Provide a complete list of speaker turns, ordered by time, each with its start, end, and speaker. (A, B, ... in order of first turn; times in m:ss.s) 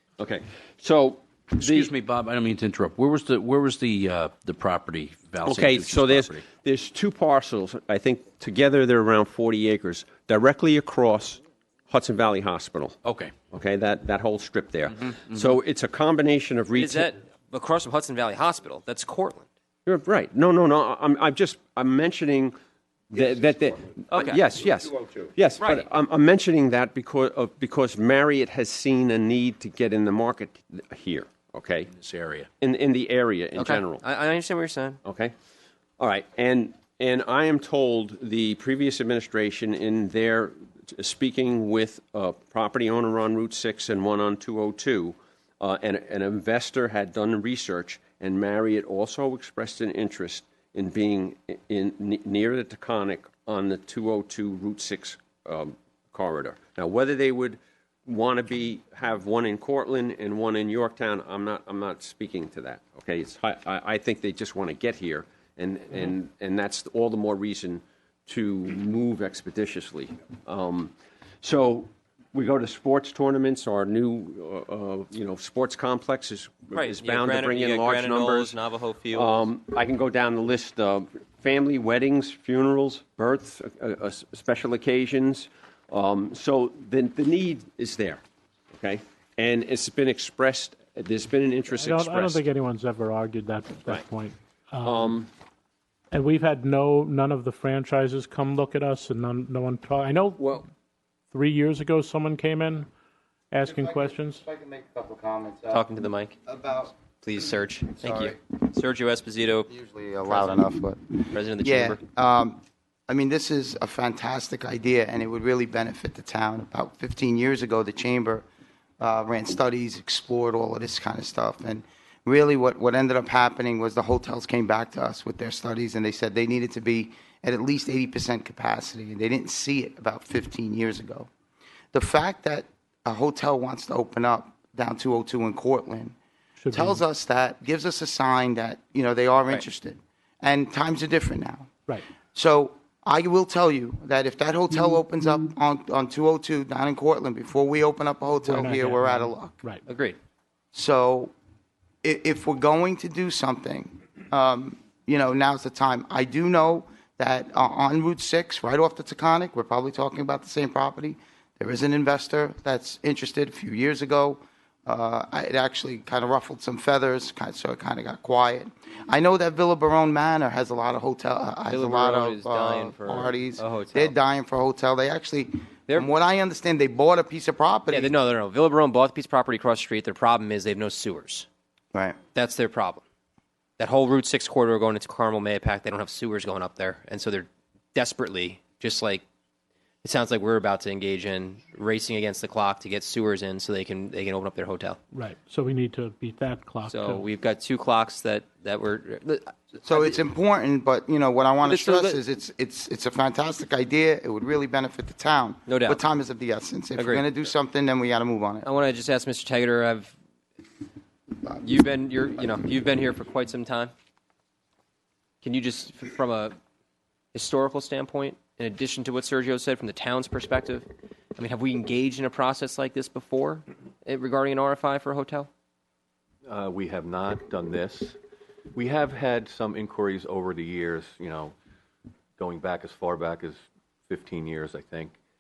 0:00.2-0:01.9 A
0:01.5-0:06.4 B
0:05.4-0:13.0 A
0:13.0-0:13.3 B
0:13.5-0:17.1 A
0:16.7-0:19.5 C
0:19.9-0:22.5 A
0:23.1-0:31.9 A
0:24.1-0:24.4 C
0:31.9-0:32.5 B
0:32.6-0:34.0 A
0:33.6-0:35.0 C
0:35.0-0:35.3 A
0:36.0-1:18.6 A
1:16.7-1:19.4 C
1:19.1-1:28.2 A
1:28.8-1:32.5 A
1:31.8-1:35.1 D
1:34.8-1:35.3 A
1:36.1-1:40.7 D
1:41.3-1:42.9 D
1:43.5-1:44.4 D
1:43.6-1:45.8 E
1:45.7-1:46.4 C
1:46.5-1:46.9 E
1:47.2-1:49.7 C
1:48.0-1:48.4 E
1:49.7-1:58.4 E
1:50.3-1:50.6 C
1:51.3-1:52.0 C
1:59.0-2:11.3 E
2:11.9-2:16.2 E
2:16.6-2:17.0 D
2:16.7-2:21.7 E
2:22.3-2:29.6 E
2:28.4-2:29.8 D
2:29.9-2:30.2 C
2:30.7-2:31.3 E
2:32.0-2:58.2 E
2:51.7-2:54.1 C
2:57.9-3:01.5 C
3:02.3-3:03.0 C
3:03.8-3:09.2 C
3:10.0-3:15.0 C
3:15.1-3:17.2 D
3:16.9-3:20.2 C
3:19.8-3:28.7 E
3:21.6-3:22.2 C
3:25.7-3:26.0 C
3:27.0-3:27.3 C
3:28.6-3:30.2 C
3:31.6-3:33.9 C
3:35.4-3:36.6 C
3:37.3-3:45.5 C
3:46.5-3:48.2 F
3:48.7-3:51.5 F
3:52.4-3:55.2 F